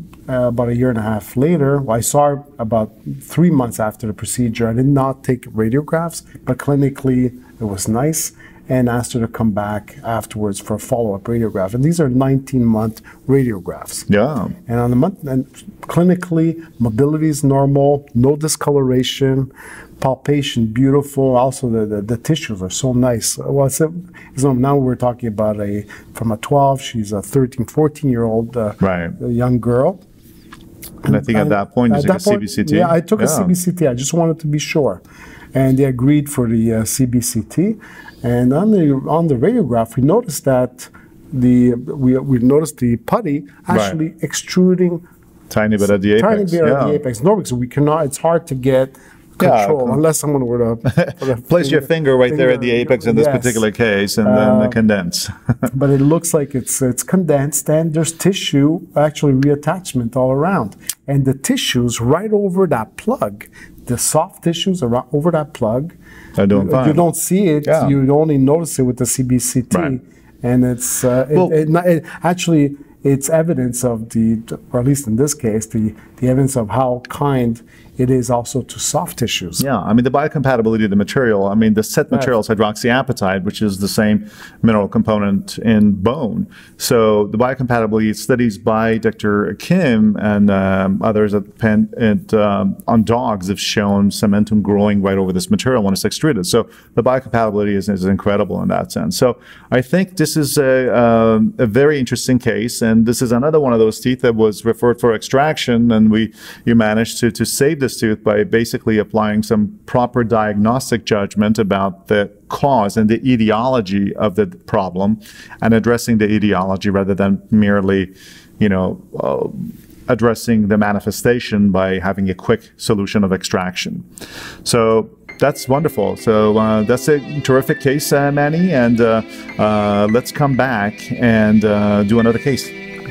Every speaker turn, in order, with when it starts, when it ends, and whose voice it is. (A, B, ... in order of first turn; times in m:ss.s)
0:00.3-0:14.1 A
0:14.1-0:14.5 B
0:14.6-0:30.0 A
0:28.8-0:29.2 B
0:31.0-0:35.0 A
0:31.0-0:33.5 B
0:35.5-0:45.0 A
0:43.7-0:44.0 B
0:45.5-0:47.0 B
0:46.1-0:53.6 A
0:49.4-0:50.0 B
0:50.8-0:55.3 B
0:54.2-0:54.8 A
0:55.7-1:05.9 A
1:06.4-1:07.0 B
1:06.5-1:19.6 A
1:07.6-1:08.0 B
1:19.6-2:04.0 B
2:04.6-2:12.7 B